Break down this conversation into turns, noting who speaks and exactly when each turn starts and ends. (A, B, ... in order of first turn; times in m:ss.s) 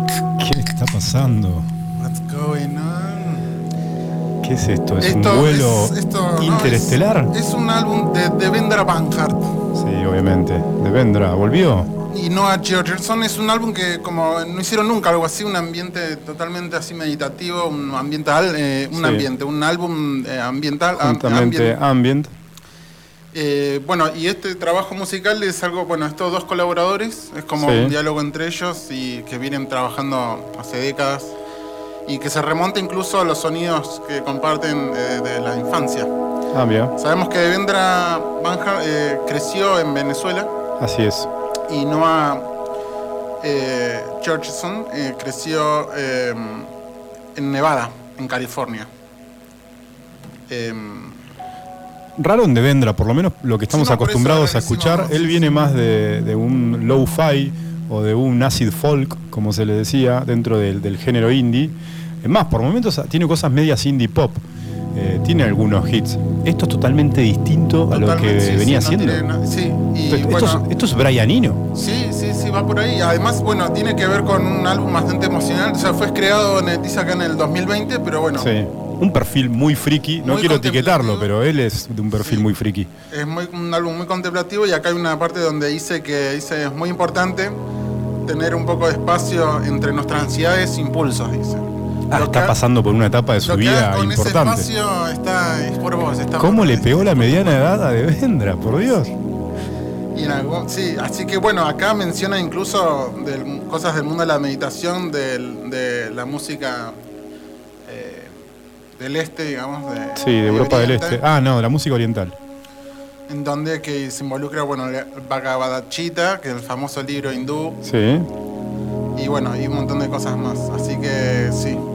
0:00.4-0:01.7 A
0:02.0-0:03.5 B
0:04.4-0:07.3 A
0:05.0-0:09.6 B
0:09.7-0:11.9 A
0:12.1-0:21.8 B
0:18.9-0:19.2 A
0:21.0-0:22.3 A
0:23.3-0:31.3 B
0:27.6-0:27.9 A
0:32.1-0:36.1 B
0:36.5-0:36.9 A
0:37.0-0:40.5 B
0:40.8-0:41.3 A
0:41.7-0:42.4 B
0:43.4-0:46.7 B
0:47.3-0:48.9 B
0:50.5-0:51.2 B
0:52.2-1:09.2 A
0:53.7-0:55.7 B
1:07.9-1:10.6 B
1:10.1-1:11.6 A
1:11.7-1:18.5 B
1:18.4-1:22.9 A
1:20.2-1:21.3 B
1:22.1-1:22.4 B
1:23.1-1:27.6 B
1:28.2-1:32.5 B
1:32.1-1:34.7 A
1:33.4-1:37.7 B
1:36.4-1:39.1 A
1:40.1-1:47.0 B
1:47.8-1:48.3 B
1:49.0-1:51.2 B
1:50.2-1:52.3 A
1:53.3-1:57.8 B
1:57.8-1:58.3 A
1:59.2-2:01.8 B